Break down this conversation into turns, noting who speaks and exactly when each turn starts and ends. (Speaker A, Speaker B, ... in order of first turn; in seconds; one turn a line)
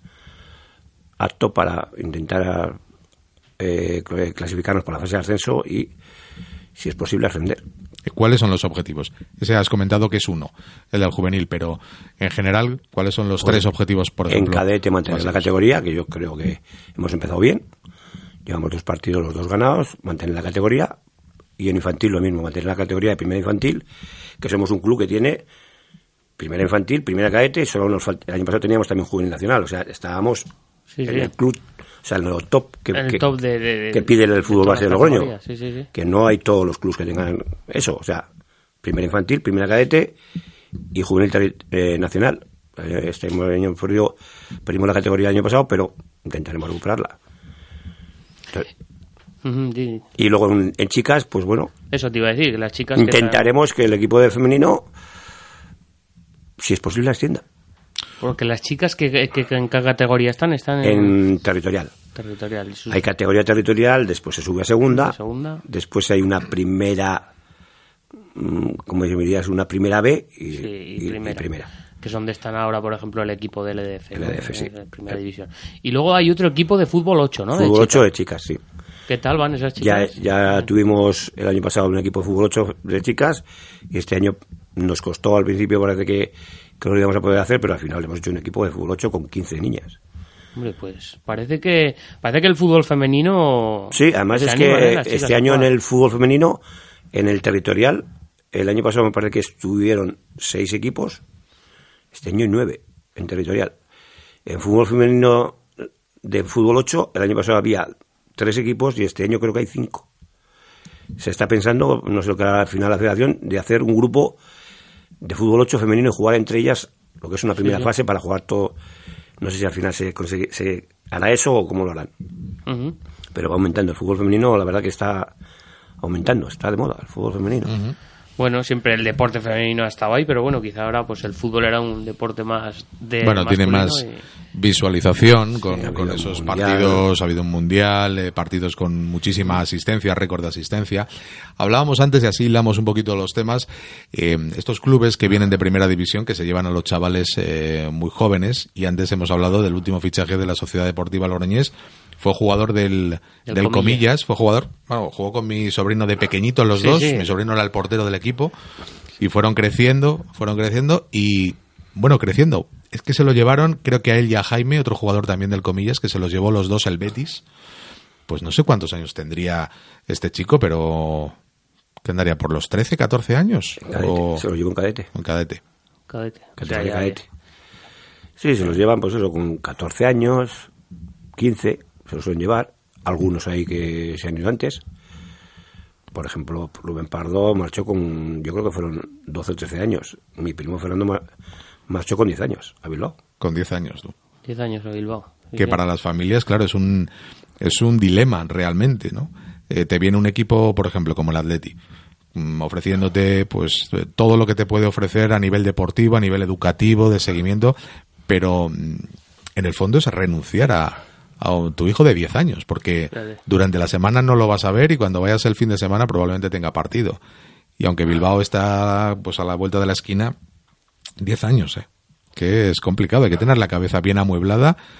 Speaker A: 1.2-2.8
Speaker A: 3.6-5.9
Speaker A: 6.8-7.6
Speaker B: 8.1-15.5
Speaker A: 13.4-13.7
Speaker A: 14.3-17.7
Speaker A: 18.5-21.0
Speaker A: 21.6-23.9
Speaker A: 24.4-25.5
Speaker A: 26.4-30.5
Speaker C: 30.9-31.3
Speaker A: 31.0-33.2
Speaker C: 32.9-35.9
Speaker A: 33.9-35.3
Speaker A: 35.9-38.3
Speaker A: 38.8-40.1
Speaker A: 40.9-47.2
Speaker C: 49.4-50.0
Speaker A: 50.2-51.7
Speaker C: 51.9-53.5
Speaker A: 52.9-54.9
Speaker A: 56.6-57.4
Speaker C: 58.2-61.1
Speaker A: 60.8-61.9
Speaker C: 62.1-63.0
Speaker A: 62.9-67.3
Speaker C: 64.9-65.6
Speaker A: 68.3-71.7
Speaker C: 70.5-71.4
Speaker C: 72.0-78.0
Speaker A: 74.1-74.7
Speaker A: 77.5-78.6
Speaker C: 79.1-80.7
Speaker A: 79.8-90.0
Speaker C: 90.5-95.7
Speaker A: 93.9-96.6
Speaker A: 97.1-101.2
Speaker A: 102.1-103.8
Speaker A: 104.5-105.7
Speaker A: 106.2-110.1
Speaker A: 111.2-114.4
Speaker A: 115.2-118.8
Speaker C: 117.6-117.9
Speaker A: 119.4-122.1
Speaker C: 122.7-123.0
Speaker A: 123.3-125.3
Speaker A: 126.0-127.7
Speaker B: 127.7-128.0
Speaker C: 128.4-134.2
Speaker B: 133.2-134.0
Speaker B: 134.5-141.1
Speaker A: 135.5-137.0
Speaker B: 141.6-158.5
Speaker C: 153.5-154.0
Speaker C: 156.8-157.3
Speaker B: 159.2-167.4
Speaker B: 168.3-171.3
Speaker B: 172.0-174.4
Speaker A: 173.8-175.1
Speaker B: 175.1-175.6
Speaker C: 176.1-177.2
Speaker A: 176.6-177.2
Speaker A: 178.4-180.7
Speaker A: 181.4-184.8
Speaker A: 186.1-191.2
Speaker A: 191.9-193.2
Speaker B: 193.4-194.1
Speaker C: 194.4-195.8
Speaker B: 195.6-197.1
Speaker B: 197.6-201.8
Speaker B: 202.3-207.8
Speaker B: 208.3-217.2
Speaker B: 217.8-220.3
Speaker B: 221.2-221.8
Speaker B: 222.4-224.8